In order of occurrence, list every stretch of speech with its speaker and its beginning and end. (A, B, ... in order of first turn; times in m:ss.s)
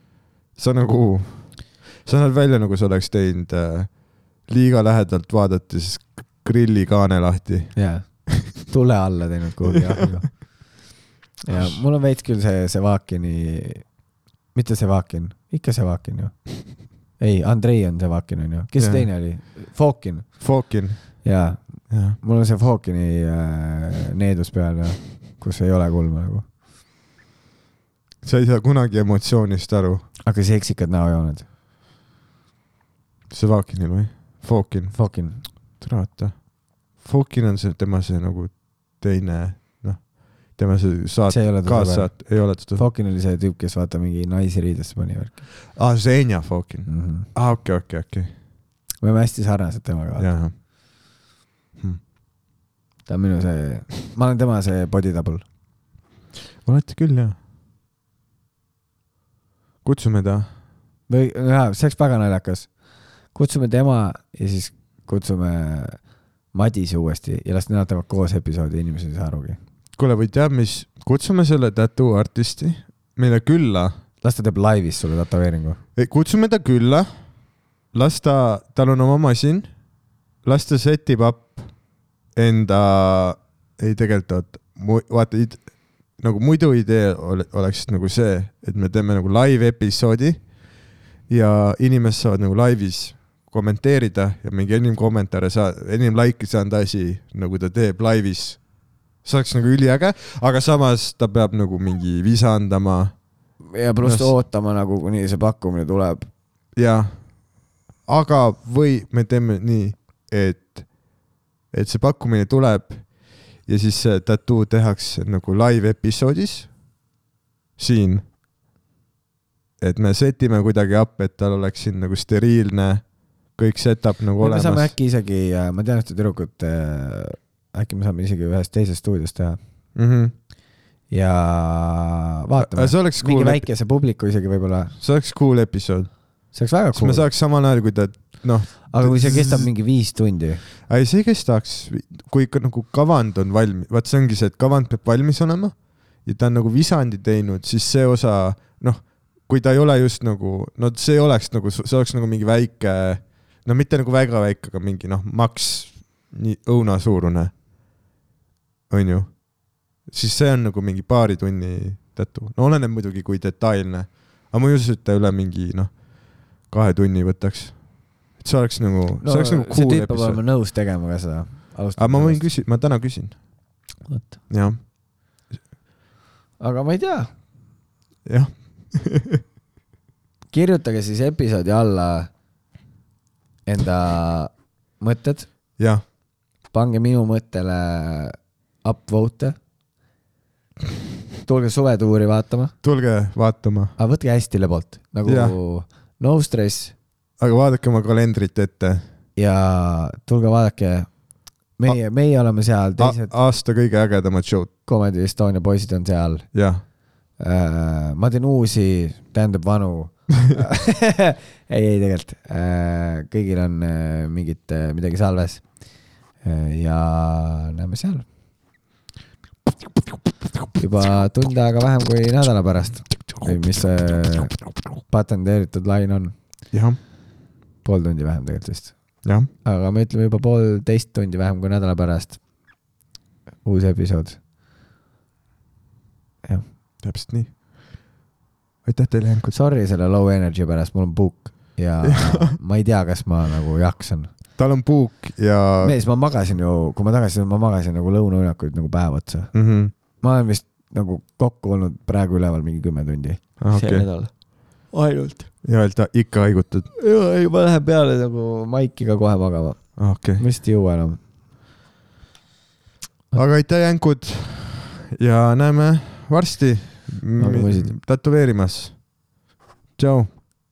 0:00.6-0:07.8 A
0:07.7-0:13.9 B
0:11.5-0:11.8 A
0:14.5-0:20.5 B
0:18.8-0:19.1 A
0:20.4-0:21.2 A
0:21.2-0:26.5 B
0:21.9-0:22.2 A
0:28.2-0:30.0 A
0:30.2-0:31.5 B
0:33.3-0:42.8 A
0:34.9-0:35.4 B
0:41.3-0:45.5 B
0:45.7-0:48.3 A
0:46.9-0:47.3 B
0:49.0-0:50.3 B
0:50.2-0:50.5 A
0:53.0-0:55.4 B
0:56.6-0:57.4 A
0:59.8-1:00.5 A
1:01.1-1:02.8 B
1:03.3-1:09.6 B
1:10.0-1:13.9 A
1:14.2-1:15.8 B
1:16.0-1:17.1 A
1:17.9-1:19.7 A
1:20.4-1:21.7 A
1:22.3-1:30.4 A
1:31.3-1:43.2 A
1:43.6-1:46.3 B
1:44.0-1:44.3 A
1:46.7-1:47.3 A
1:48.0-1:51.0 A
1:51.7-1:56.7 A
1:57.8-1:58.2 A
1:59.8-2:04.9 A
2:04.4-2:09.6 B
2:09.9-2:10.3 A
2:11.1-2:14.9 B
2:12.6-2:13.7 A
2:15.0-2:16.1 A
2:16.5-2:17.3 B
2:16.9-2:19.7 A
2:18.9-2:20.6 B
2:20.8-2:37.6 A
2:38.9-2:50.4 A
2:49.2-2:52.5 B
2:52.0-2:53.4 A
2:54.1-2:54.4 B
2:54.5-2:54.8 A
2:56.6-2:57.3 B
2:58.2-2:59.4 A
3:00.5-3:02.3 B
3:03.6-3:05.5 B
3:05.8-3:06.0 A
3:06.7-3:09.6 B
3:11.4-3:12.7 B
3:12.8-3:13.9 A
3:14.0-3:16.9 B
3:15.2-3:15.5 A
3:17.4-3:19.0 A
3:19.4-3:21.1 B
3:21.8-3:23.3 B
3:23.0-3:24.7 A
3:24.8-3:26.5 B
3:26.5-3:26.8 A
3:27.4-3:38.2 B
3:40.8-3:46.4 B
3:46.7-3:47.0 A
3:47.8-3:49.0 B
3:49.2-3:49.5 A
3:49.6-3:52.4 B
3:53.6-3:54.4 B
3:57.0-3:57.5 A
3:58.8-3:59.5 A
3:59.5-4:04.3 B
4:02.0-4:02.6 A
4:04.6-4:05.9 A
4:05.8-4:09.5 B
4:09.5-4:09.9 A
4:10.2-4:15.5 B
4:13.6-4:14.1 A
4:15.6-4:16.9 A
4:17.0-4:21.2 B
4:20.0-4:20.4 A
4:23.3-4:29.1 A
4:27.4-4:28.0 B
4:30.0-4:30.3 A